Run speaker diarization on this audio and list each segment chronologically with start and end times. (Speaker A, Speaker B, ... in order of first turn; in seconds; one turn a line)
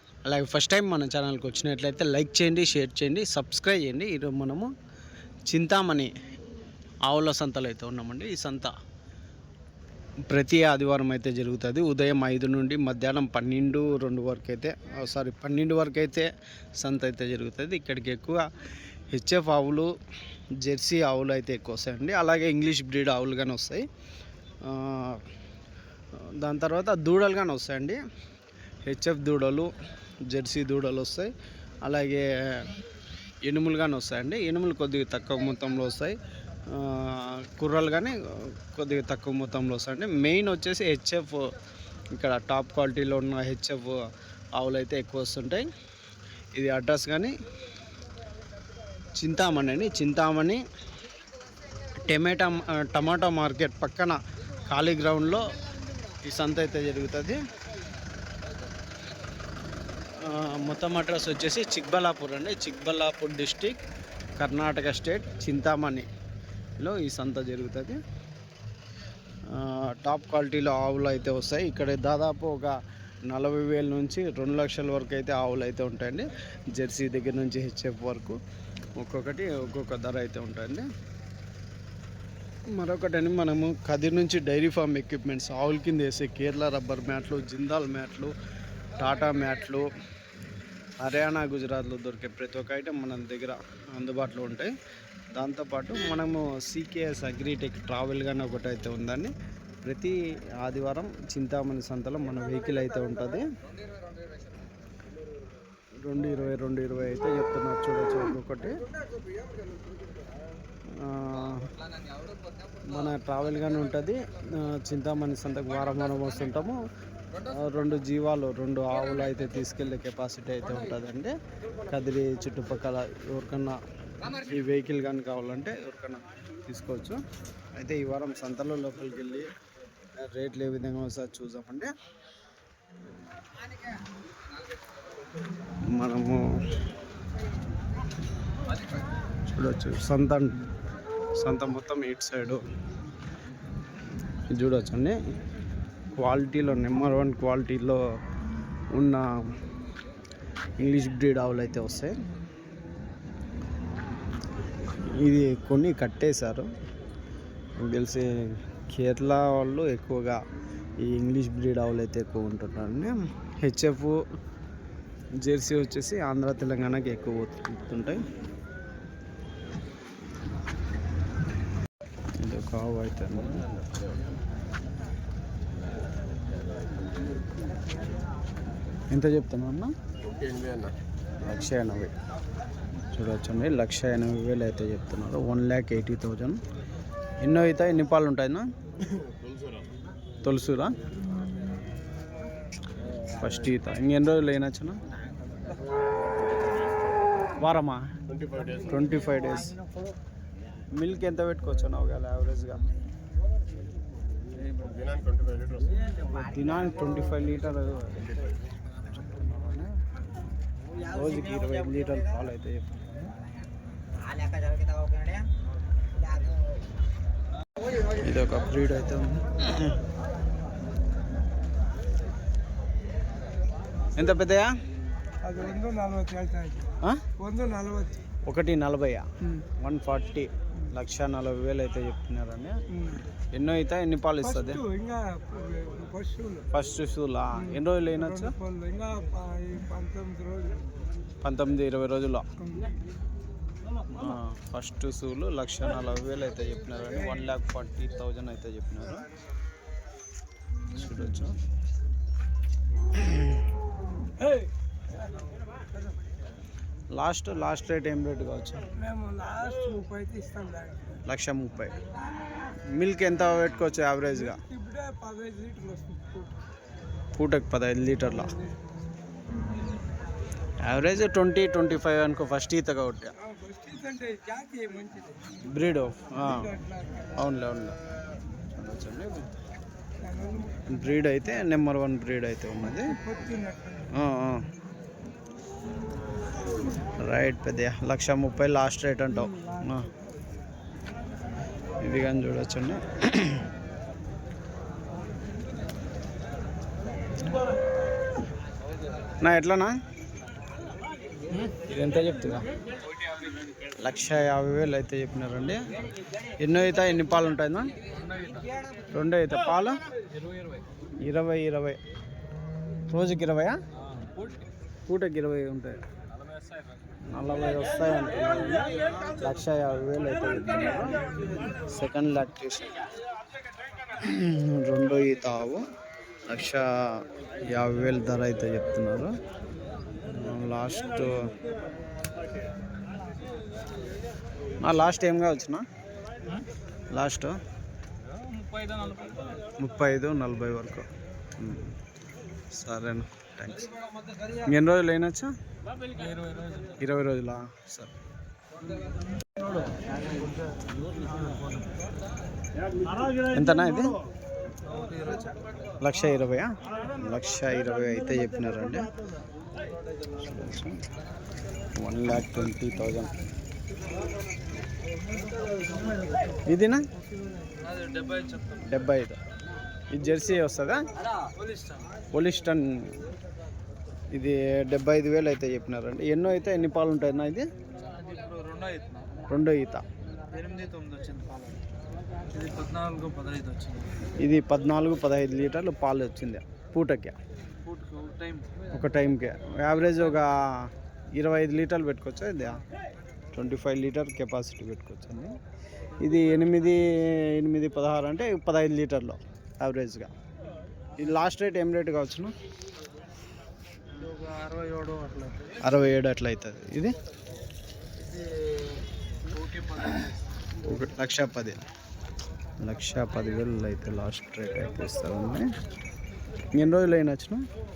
Speaker A: 0.2-4.7
Speaker A: 5.5-6.1
Speaker A: 7.1-8.7
Speaker A: 10.3-16.3
Speaker A: 16.8-18.4
Speaker A: 19.1-19.9
Speaker A: 20.6-23.8
Speaker A: 24.6-25.2
Speaker A: 26.4-28.0
Speaker A: 28.9-29.7
Speaker A: 30.3-31.3
Speaker A: 31.8-32.7
Speaker A: 33.5-36.2
Speaker A: 36.7-38.1
Speaker A: 38.7-41.5
Speaker A: 42.2-44.0
Speaker A: 44.6-45.7
Speaker A: 46.5-47.3
Speaker A: 49.2-50.6
Speaker A: 52.1-54.2
Speaker A: 54.7-55.5
Speaker A: 56.2-57.4
Speaker A: 60.2-63.8
Speaker A: 64.4-66.1
Speaker A: 66.8-68.0
Speaker A: 69.5-72.8
Speaker A: 73.3-78.4
Speaker A: 79.0-80.9
Speaker A: 82.7-88.3
Speaker A: 89.0-89.9
Speaker A: 91.0-94.7
Speaker A: 95.3-99.3
Speaker A: 99.8-103.5
Speaker A: 106.0-108.8
Speaker A: 110.9-111.7
Speaker A: 112.9-116.8
Speaker A: 117.4-121.3
Speaker A: 121.9-123.8
Speaker A: 124.4-127.2
Speaker A: 127.8-129.5
Speaker A: 130.2-131.9
Speaker A: 135.9-136.5
Speaker A: 139.5-140.6
Speaker A: 141.4-142.6
Speaker A: 144.5-145.2
Speaker A: 146.2-148.0
Speaker A: 148.9-149.5
Speaker A: 150.8-152.2
Speaker A: 155.1-156.7
Speaker A: 157.8-160.4
Speaker A: 161.0-164.2
Speaker A: 165.4-168.2
Speaker A: 172.4-173.7
Speaker A: 179.1-179.9
Speaker A: 181.4-182.1
Speaker A: 183.1-186.6
Speaker A: 187.4-188.7
Speaker A: 190.4-190.9
Speaker A: 193.3-195.0
Speaker A: 197.6-198.0
Speaker A: 198.8-199.8
Speaker A: 200.9-202.8
Speaker A: 206.4-208.4
Speaker A: 209.1-209.9
Speaker A: 211.1-213.3
Speaker A: 218.2-219.9
Speaker A: 224.2-224.7
Speaker B: 225.4-228.2
Speaker A: 228.5-232.8
Speaker B: 232.9-233.2
Speaker A: 233.5-234.8
Speaker B: 234.4-236.7
Speaker A: 236.7-238.5
Speaker B: 237.6-240.9
Speaker A: 241.4-242.4
Speaker B: 242.6-242.9
Speaker A: 244.1-249.2
Speaker A: 250.9-251.6
Speaker A: 253.2-253.6
Speaker B: 254.4-254.7
Speaker A: 257.1-258.8
Speaker B: 259.0-261.2
Speaker A: 261.3-261.9
Speaker A: 262.9-264.6
Speaker B: 264.3-266.5
Speaker A: 267.4-268.5
Speaker A: 270.8-273.3
Speaker B: 273.4-275.4
Speaker A: 275.7-276.7
Speaker B: 276.4-277.4
Speaker A: 277.4-277.9
Speaker A: 278.7-279.5
Speaker B: 280.2-281.0
Speaker A: 280.9-283.1
Speaker B: 283.1-284.1
Speaker A: 284.1-284.6
Speaker A: 287.2-290.1
Speaker B: 289.6-289.8
Speaker A: 292.0-293.7
Speaker A: 299.4-299.9
Speaker A: 301.8-302.6
Speaker A: 304.0-305.9
Speaker A: 306.6-307.9
Speaker C: 308.1-308.7
Speaker A: 309.1-310.0
Speaker C: 310.3-310.8
Speaker A: 311.2-312.0
Speaker A: 313.1-313.8
Speaker C: 314.0-314.7
Speaker A: 315.1-316.0
Speaker A: 317.3-321.2
Speaker A: 321.8-322.9
Speaker A: 324.2-325.8
Speaker A: 326.5-329.3
Speaker A: 330.3-331.3
Speaker A: 334.8-335.8
Speaker A: 337.1-337.6
Speaker C: 338.4-339.4
Speaker A: 339.8-341.1
Speaker A: 341.6-341.9
Speaker A: 342.7-343.9
Speaker A: 344.7-345.5
Speaker C: 346.1-347.0
Speaker A: 347.0-348.1
Speaker C: 349.8-351.8
Speaker A: 353.5-354.2
Speaker C: 354.9-355.6
Speaker A: 356.0-359.1
Speaker A: 360.4-361.0
Speaker A: 362.0-363.3
Speaker A: 366.7-367.0
Speaker C: 367.8-368.9
Speaker A: 368.8-369.4
Speaker A: 370.1-371.1
Speaker C: 371.4-372.1
Speaker A: 372.3-373.1
Speaker A: 374.3-377.7
Speaker C: 378.1-379.3
Speaker A: 379.5-380.0
Speaker C: 380.5-381.8
Speaker C: 382.5-384.1
Speaker A: 384.4-387.4
Speaker C: 387.8-388.7
Speaker A: 388.9-392.8
Speaker A: 393.5-395.6
Speaker A: 396.2-400.3
Speaker A: 401.2-402.5
Speaker C: 404.1-405.9
Speaker A: 405.8-407.1
Speaker C: 408.2-410.4
Speaker A: 410.9-411.8
Speaker A: 412.8-415.7
Speaker A: 416.7-417.6